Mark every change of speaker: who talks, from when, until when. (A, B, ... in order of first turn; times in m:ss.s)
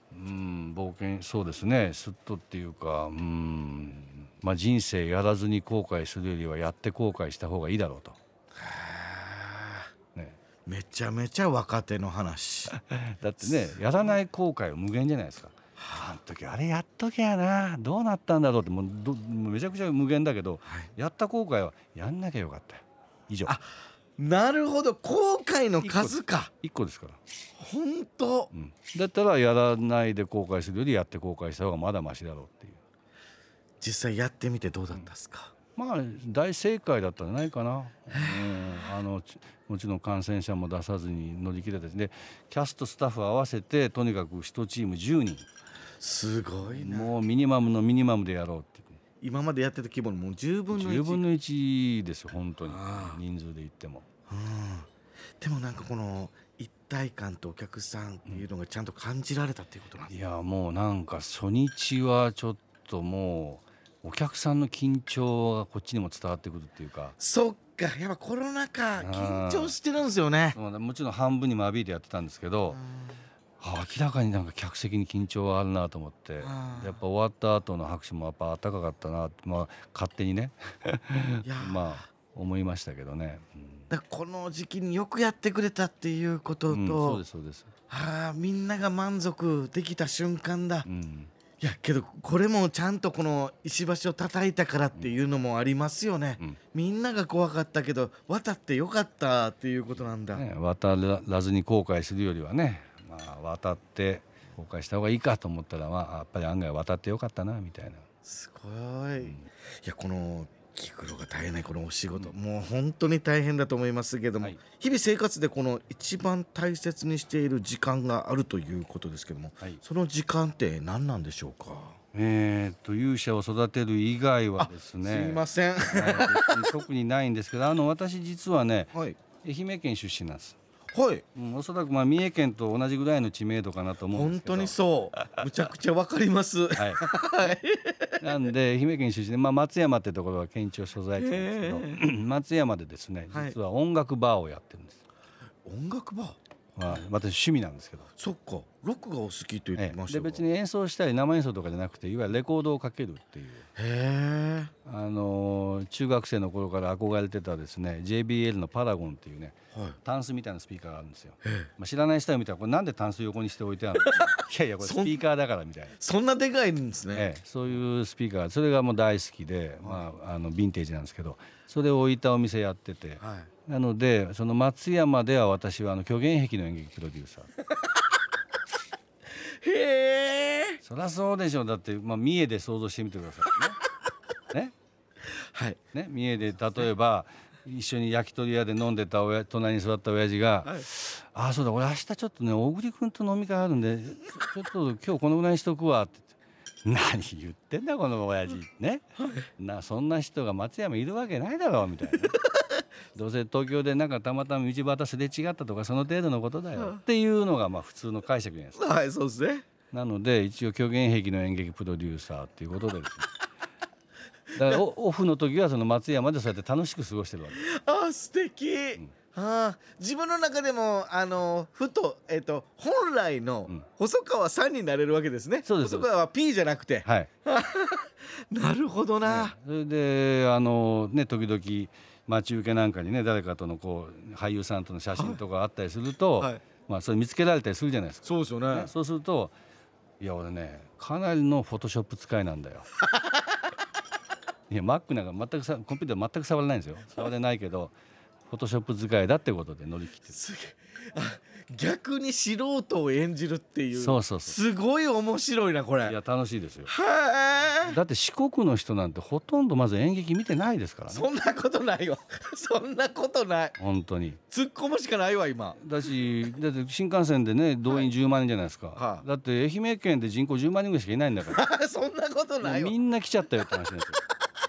0:00.1-0:08.2 A
0:08.5-0:09.9 B
0:10.1-0:10.4 A
0:10.7-0:12.8 B
0:12.7-0:23.6 A
0:13.4-0:14.2 B
0:15.8-0:16.2 B
0:20.6-0:20.9 B
0:23.4-0:26.5 B
0:25.8-0:27.2 A
0:27.6-0:28.5 B
0:28.5-0:32.8 A
0:33.8-0:35.5 B
0:35.8-0:45.5 A
0:38.1-0:38.8 B
0:46.0-0:47.2 B
0:46.6-0:49.0 A
0:49.2-0:51.2 B
0:50.7-0:54.1 A
0:52.6-0:53.2 B
0:54.3-0:54.9 B
0:55.4-1:00.1 B
1:00.1-1:07.2 A
1:07.2-1:10.6 B
1:09.0-1:09.8 A
1:10.5-1:12.8 A
1:12.7-1:13.2 B
1:13.6-1:23.9 A
1:16.4-1:17.0 B
1:21.4-1:22.0 B
1:23.9-1:27.2 B
1:26.7-1:27.7 A
1:27.9-1:30.9 B
1:30.9-1:31.3 A
1:31.6-1:40.4 B
1:40.3-1:48.0 A
1:48.2-2:02.0 B
1:49.2-1:49.5 A
2:02.1-2:10.6 A
2:04.6-2:06.7 B
2:08.9-2:09.2 B
2:10.9-2:11.2 B
2:11.3-2:14.8 A
2:14.1-2:18.3 B
2:16.8-2:17.0 A
2:18.2-2:25.0 A
2:21.2-2:22.0 B
2:23.3-2:23.6 B
2:25.6-2:26.4 B
2:26.8-2:28.1 A
2:28.2-2:30.4 B
2:29.8-2:33.7 A
2:33.8-2:34.7 B
2:34.8-2:46.0 A
2:41.4-2:41.7 B
2:44.1-2:45.2 B
2:46.0-2:47.3 B
2:47.1-2:57.5 A
2:53.2-2:53.5 B
2:59.5-3:00.8 B
3:00.8-3:03.8 A
3:05.5-3:05.8 B
3:05.9-3:19.0 A
3:19.6-3:22.4 A
3:23.1-3:28.8 A
3:26.8-3:27.0 B
3:28.8-3:29.6 B
3:29.9-3:33.3 A
3:34.6-3:37.6 A
3:34.6-3:34.8 B
3:37.5-3:49.6 B
3:45.6-3:46.1 A
3:47.0-3:47.3 A
3:49.2-3:59.6 A
3:55.1-3:55.4 B
3:58.2-3:58.9 B
4:00.2-4:02.9 A
4:04.7-4:07.9 A
4:08.5-4:10.4 A
4:10.3-4:16.2 B
4:14.0-4:14.6 A
4:16.0-4:16.9 A
4:16.9-4:18.0 B
4:17.8-4:21.3 A
4:21.1-4:23.8 B
4:23.8-4:24.4 A
4:24.5-4:25.8 B
4:25.8-4:31.6 A
4:29.0-4:29.2 B
4:31.5-4:33.0 B
4:32.6-4:34.2 A